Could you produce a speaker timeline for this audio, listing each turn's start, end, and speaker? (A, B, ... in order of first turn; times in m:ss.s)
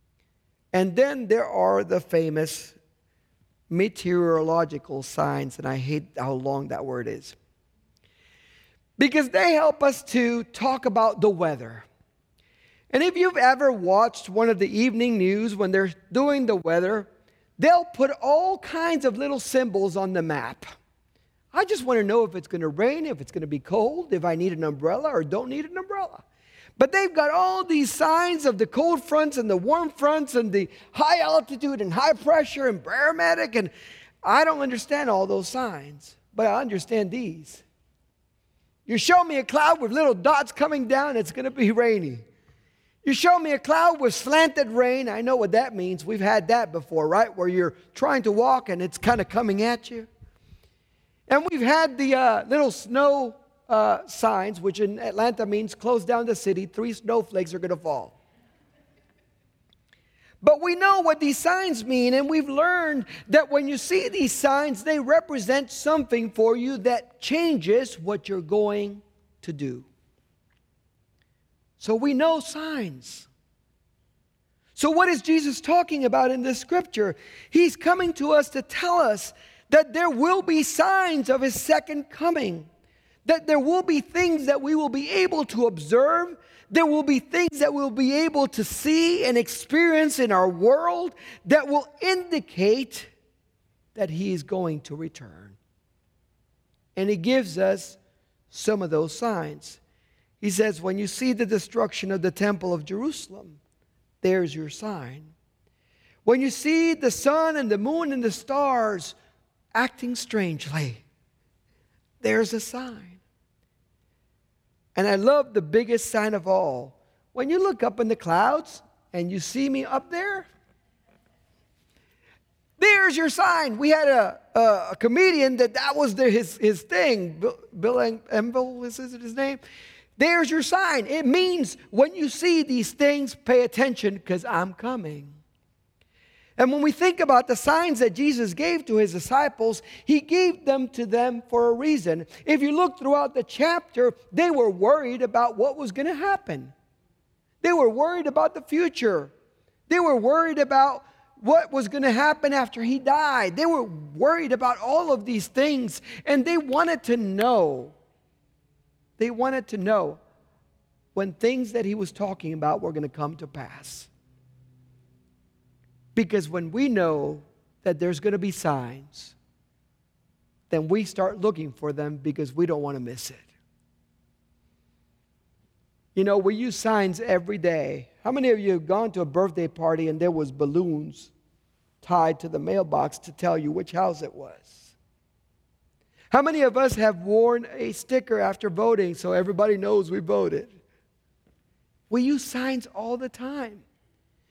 0:00.7-0:02.8 A
0:03.7-0:07.4 A
0:09.0-0:11.8 A
0:12.9-0:20.7 A
0:21.5-0:26.2 A
0:26.8-0:33.7 A
0:34.2-0:37.6 A
0:38.9-0:42.2 A
0:43.0-0:50.1 A
0:51.3-0:58.2 A
1:00.4-1:09.9 A
1:11.8-1:13.3 A
1:14.8-1:22.7 A
1:23.2-1:33.1 A
1:33.9-1:35.6 A
1:36.9-1:38.0 A
1:38.5-1:39.8 A
1:40.4-1:43.6 A
1:44.2-1:45.3 A
1:46.2-1:49.2 A
1:49.7-1:51.0 A
1:52.2-1:53.2 A
1:54.9-2:00.5 A
2:02.8-2:09.6 A
2:10.2-2:15.4 A
2:16.6-2:26.7 A
2:27.6-2:29.3 A
2:29.9-2:37.9 A
2:39.2-2:40.2 A
2:41.1-2:44.1 A
2:46.1-2:49.3 A
2:50.7-2:53.5 A
2:56.1-3:01.3 A
3:02.0-3:04.9 A
3:06.3-3:10.8 A
3:12.1-3:13.8 A